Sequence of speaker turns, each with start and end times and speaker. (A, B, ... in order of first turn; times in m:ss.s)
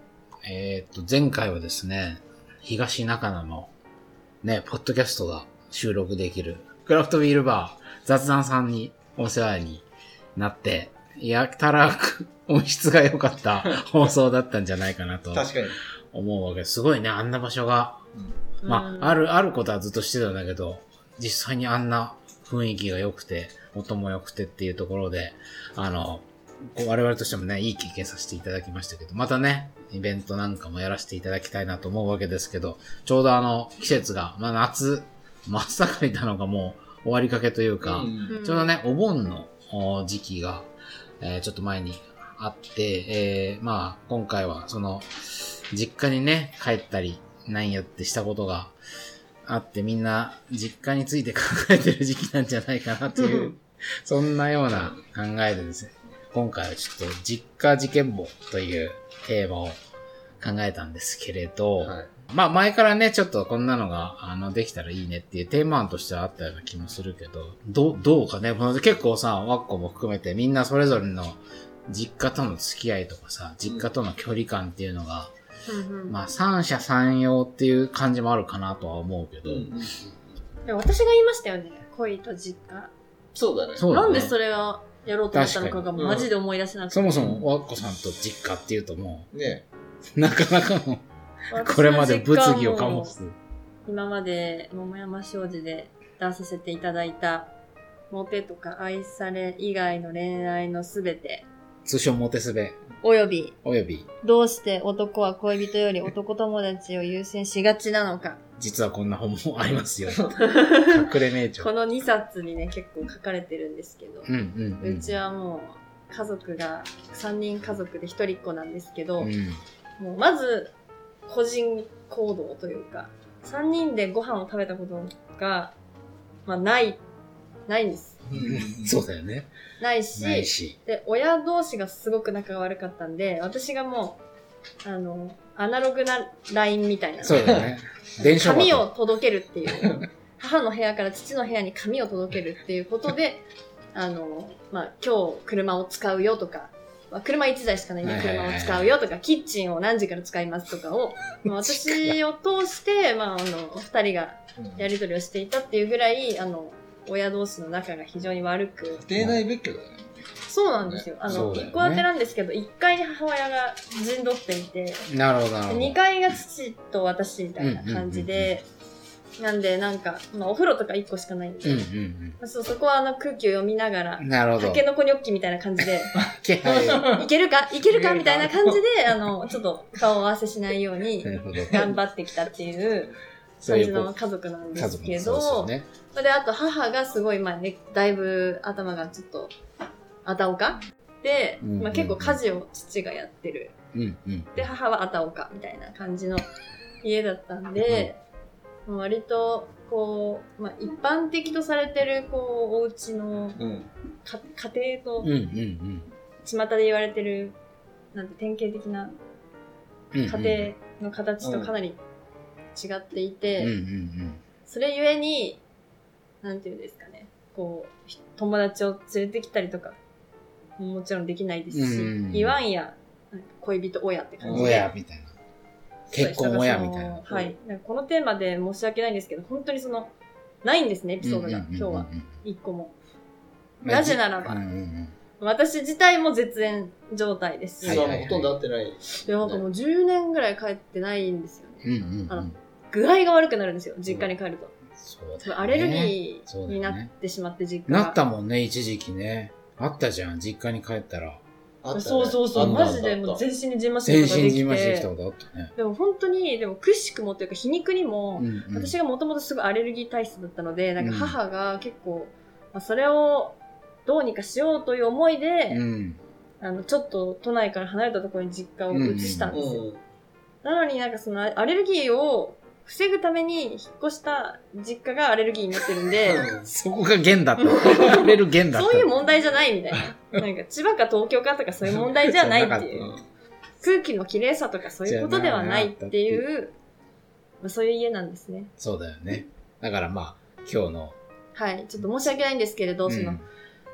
0:00.4-0:03.7 A
0:04.4-0:15.6 A
0:13.6-0:14.0 B
0:15.3-0:15.8 B
0:16.1-0:18.0 A
0:18.6-0:19.2 C
0:18.6-0:40.7 A
0:37.8-0:38.4 B
0:38.3-0:38.8 C
0:41.2-0:48.8 A
0:49.4-0:59.8 A
0:54.7-0:55.0 B
1:00.4-1:15.3 A
1:01.8-1:02.1 B
1:15.7-1:16.2 C
1:16.1-1:19.7 A
1:19.4-1:20.2 B
1:20.7-1:22.9 C
1:23.4-1:23.9 B
1:23.8-1:24.4 A
1:23.9-1:27.3 C
1:25.3-1:25.9 A
1:26.0-1:26.3 B
1:26.9-1:29.3 A
1:27.1-1:27.5 B
1:29.3-1:29.6 B
1:30.1-1:31.0 A
1:31.5-1:33.2 C
1:31.6-1:33.4 A
1:33.9-1:37.5 C
1:38.1-1:41.5 C
1:41.8-1:42.8 A
1:43.0-1:43.6 C
1:43.6-1:44.1 A
1:44.2-1:48.4 C
1:48.6-1:51.7 A
1:50.4-1:59.3 C
1:54.3-1:55.2 A
1:59.2-1:59.6 A
2:00.0-2:00.7 C
2:01.3-2:05.8 C
2:06.5-2:07.0 C
2:07.7-2:08.2 C
2:08.3-2:09.0 B
2:08.3-2:09.5 A
2:09.8-2:14.2 C
2:10.2-2:10.8 A
2:14.8-2:17.4 C
2:17.2-2:18.9 A
2:17.4-2:17.7 B
2:18.2-2:39.0 C
2:28.0-2:28.9 A
2:31.5-2:32.2 A
2:34.6-2:34.9 B
2:38.9-2:40.2 B
2:40.5-2:45.1 C
2:40.8-2:41.5 B
2:41.3-2:42.1 A
2:45.1-2:46.0 A
2:45.7-2:48.6 C
2:47.6-2:48.5 A
2:49.4-2:51.9 C
2:51.6-2:52.4 A
2:52.4-3:03.1 C
2:54.2-2:54.8 A
2:56.2-2:57.1 A
2:56.8-2:57.2 B
2:57.9-2:58.8 B
3:01.2-3:01.9 A
3:01.5-3:01.8 B
3:03.6-3:04.1 A
3:03.6-3:09.5 C
3:04.8-3:05.9 A
3:10.2-3:13.8 C
3:11.6-3:12.4 A
3:13.9-3:14.6 A
3:14.6-3:16.5 C
3:17.0-3:18.2 C
3:17.8-3:18.1 A
3:18.9-3:23.6 C
3:23.6-3:23.9 B
3:24.2-3:25.3 C
3:25.2-3:26.1 A
3:26.4-3:27.6 C
3:28.1-3:29.2 C
3:30.1-3:30.7 A
3:30.2-3:32.0 C
3:31.4-3:31.7 B
3:32.8-3:33.7 C
3:33.6-3:34.4 A
3:34.7-3:35.6 C
3:36.4-3:40.0 C
3:40.8-3:44.9 C
3:41.7-3:42.6 A
3:44.4-3:44.8 B
3:44.5-3:45.3 A
3:46.1-3:47.3 A
3:46.1-3:50.1 C
3:50.6-3:53.0 C
3:51.2-3:52.3 A
3:53.8-3:55.1 A
3:53.9-3:54.6 C
3:55.4-3:58.1 C
3:57.8-3:58.6 A
3:57.8-3:59.6 B
3:59.2-4:04.7 C
4:01.8-4:02.5 A
4:05.0-4:07.1 A
4:05.4-4:08.2 C
4:07.9-4:11.4 A
4:11.8-4:13.4 B
4:11.9-4:15.1 C
4:12.6-4:13.0 A
4:14.0-4:15.7 A
4:15.8-4:25.8 C
4:18.4-4:19.0 A
4:21.0-4:21.4 A
4:25.7-4:26.2 A
4:26.6-4:29.8 C
4:28.9-4:29.6 A
4:29.5-4:30.0 B
4:30.6-4:36.5 C
4:36.2-4:36.7 B
4:36.6-4:39.1 A
4:37.6-4:43.1 C
4:39.9-4:40.4 A
4:42.0-4:43.1 A
4:43.0-4:43.2 B
4:43.8-4:46.7 C
4:45.0-4:46.4 A
4:47.6-4:48.7 C
4:48.8-4:51.2 A
4:51.6-4:53.4 C
4:53.1-4:53.4 A